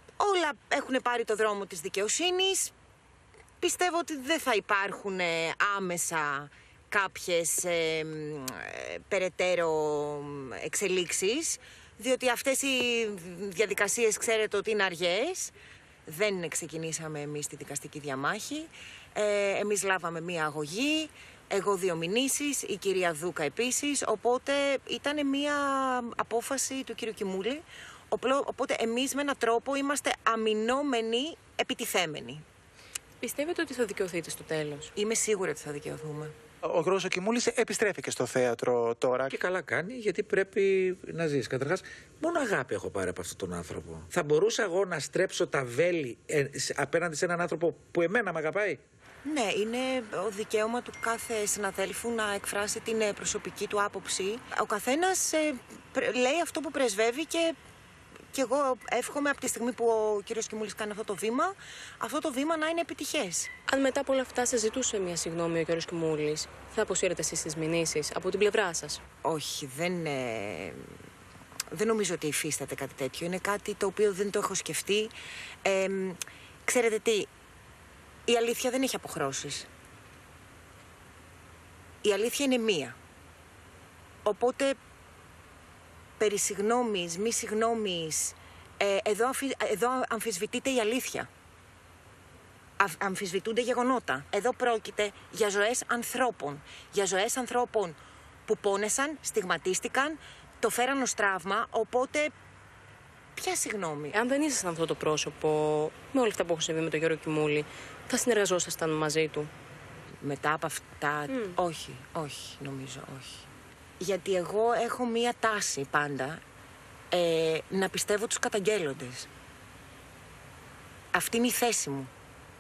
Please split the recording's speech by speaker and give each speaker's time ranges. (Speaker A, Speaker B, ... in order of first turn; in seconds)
Speaker A: 0.2-2.7, 3.6-15.5, 16.1-32.4, 35.0-36.3, 49.2-57.6, 58.3-63.5, 69.2-70.9, 71.7-75.1, 75.7-77.3, 78.3-79.7, 82.0-83.0, 84.2-84.8, 86.2-91.3, 92.8-102.3, 103.4-104.2, 110.2-113.4, 114.0-116.4, 117.1-119.3, 121.1-122.1
Speaker B: 33.2-34.9, 63.7-69.0, 104.1-109.5, 111.3-111.6
Speaker C: 36.7-39.3
Speaker D: 39.3-48.8